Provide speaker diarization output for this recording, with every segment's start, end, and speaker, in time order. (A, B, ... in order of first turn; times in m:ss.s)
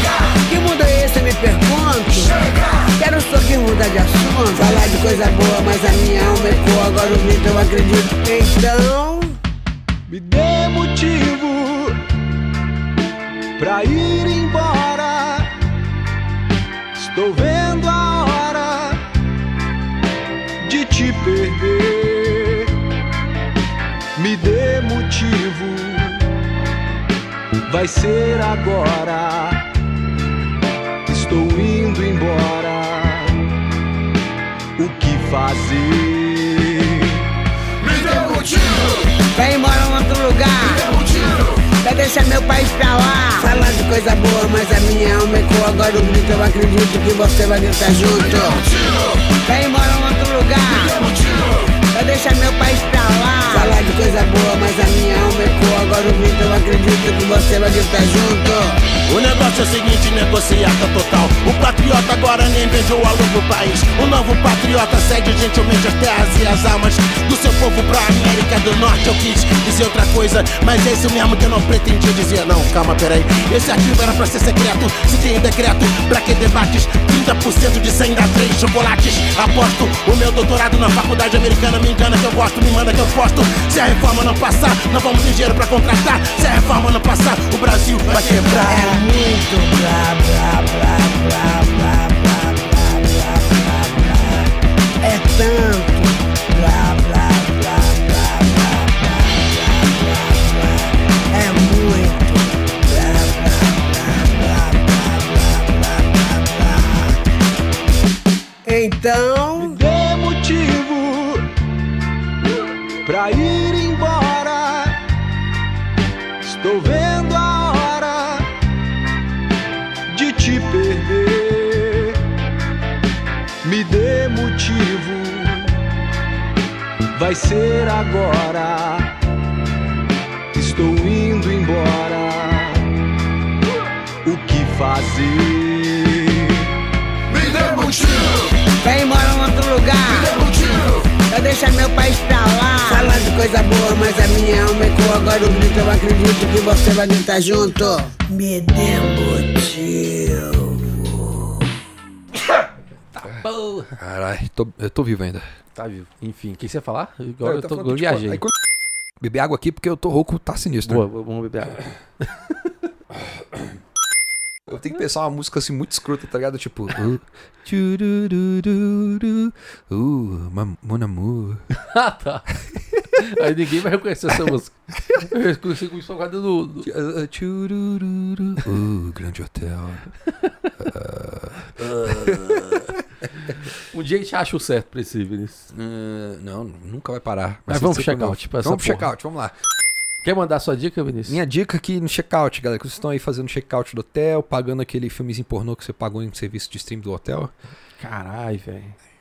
0:00.4-0:09.4 A
0:10.1-0:12.0 B
0:13.6-0:15.5 B
0:17.0-0:19.0 B
0:20.6-0:22.8 B
0:24.2-0:26.3 B
0:27.7-0:29.7 B
0:31.1-0:33.4 B
0:34.8-0:37.2 B
0:37.8-0:38.8 B
0:38.9-0:58.9 A
0:59.1-1:29.0 C
1:28.1-1:47.2 A
1:48.6-1:49.8 A
1:49.6-1:51.5 B
1:53.0-1:55.0 B
1:56.4-1:58.5 B
2:00.1-2:02.2 B
2:03.6-2:05.8 B
2:07.2-2:09.1 B
2:10.5-2:12.9 B
2:14.2-2:16.7 B
2:17.3-2:18.3 B
2:18.3-2:31.7 A
2:33.1-2:34.0 D
2:34.0-2:35.4 E
2:35.8-2:38.4 D
2:37.4-2:38.7 E
2:39.2-2:41.1 E
2:40.8-2:42.7 D
2:43.1-2:43.8 E
2:44.7-2:51.7 E
2:51.7-2:52.5 D
2:53.1-2:56.9 D
2:56.8-3:00.1 E
3:00.4-3:00.7 D
3:00.8-3:02.9 E
3:01.8-3:02.9 D
3:03.8-3:05.7 D
3:05.7-3:09.6 E
3:07.7-3:09.1 D
3:10.2-3:11.4 D
3:11.3-3:17.5 E
3:18.0-3:19.0 D